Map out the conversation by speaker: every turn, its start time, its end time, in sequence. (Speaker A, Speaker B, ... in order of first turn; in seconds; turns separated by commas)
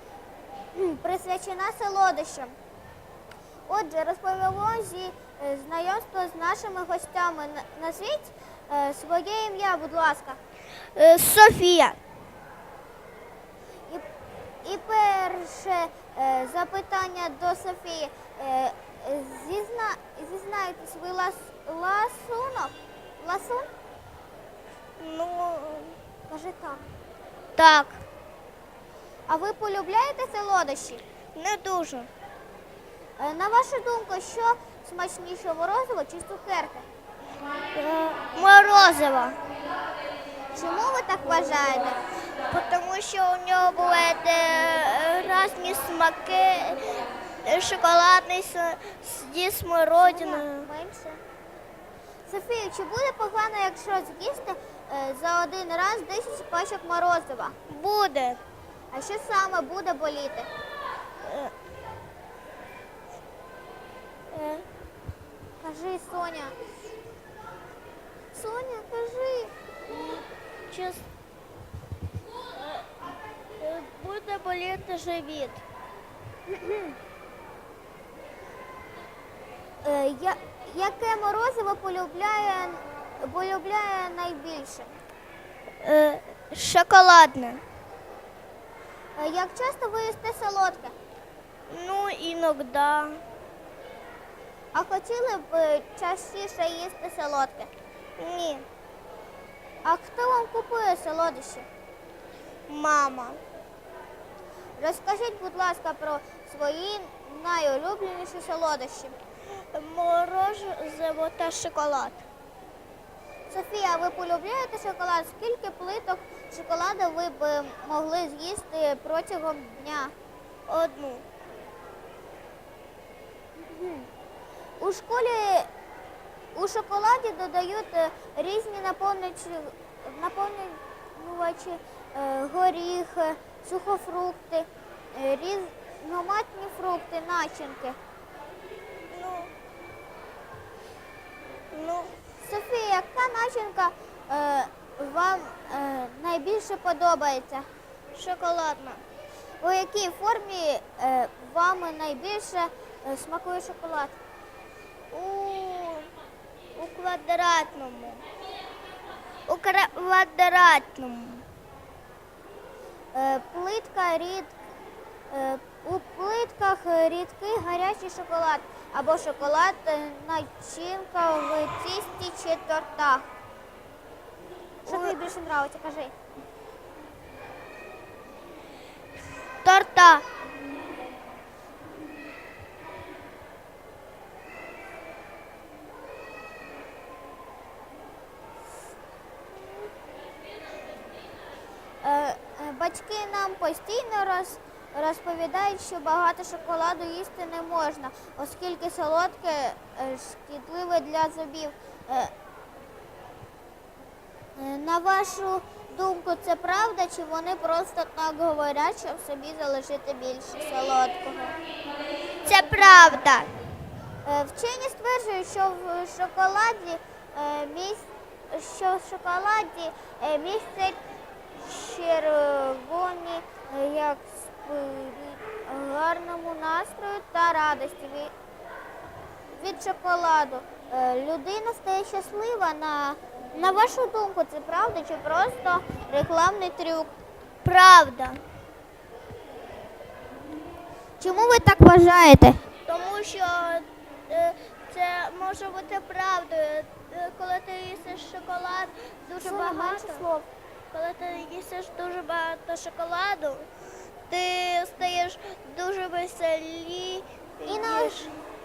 Speaker A: 0.7-2.5, Speaker A: 3.7-10.4, Speaker B: 10.9-12.0, Speaker A: 14.6-23.7, Speaker B: 25.0-26.0, Speaker A: 26.3-26.8, Speaker B: 27.6-28.0, Speaker A: 29.3-31.0, Speaker B: 31.3-32.1, Speaker A: 33.2-36.9, Speaker B: 37.7-39.4, Speaker A: 40.5-42.0, Speaker B: 42.5-50.7, Speaker A: 50.0-51.2, Speaker A: 52.3-57.5, Speaker B: 57.7-58.4, Speaker A: 58.9-60.5, Speaker B: 61.2-61.5, Speaker B: 64.3-64.7, Speaker A: 65.6-66.5, Speaker A: 68.3-69.5, Speaker B: 69.9-71.1, Speaker B: 72.6-72.8, Speaker B: 73.6-75.6, Speaker A: 76.5-76.9, Speaker A: 79.8-84.9, Speaker B: 85.8-87.6, Speaker A: 89.2-90.9, Speaker B: 91.7-93.2, Speaker A: 94.7-97.7, Speaker B: 98.2-98.7, Speaker A: 99.8-101.7, Speaker B: 102.7-103.4, Speaker A: 104.8-109.2, Speaker B: 109.7-112.2, Speaker A: 113.5-120.1, Speaker B: 120.7-121.2, Speaker A: 123.6-124.1, Speaker A: 124.8-125.7, Speaker A: 126.5-138.0, Speaker B: 139.1-139.5, Speaker B: 141.7-142.1, Speaker A: 142.4-147.7, Speaker B: 148.1-149.0, Speaker A: 149.6-154.2, Speaker B: 155.1-156.1, Speaker B: 156.8-158.2, Speaker B: 159.5-161.4, Speaker A: 163.1-164.5, Speaker A: 165.3-173.2, Speaker B: 174.8-175.2, Speaker A: 174.8-176.1, Speaker B: 179.6-180.2, Speaker A: 192.0-202.3, Speaker A: 204.6-211.5, Speaker B: 212.4-213.5, Speaker A: 214.2-221.0, Speaker A: 221.6-228.3, Speaker A: 229.5-237.1, Speaker B: 237.6-238.4, Speaker A: 241.2-242.6, Speaker B: 242.8-253.7, Speaker A: 249.4-250.2, Speaker B: 254.3-258.3, Speaker A: 257.6-258.2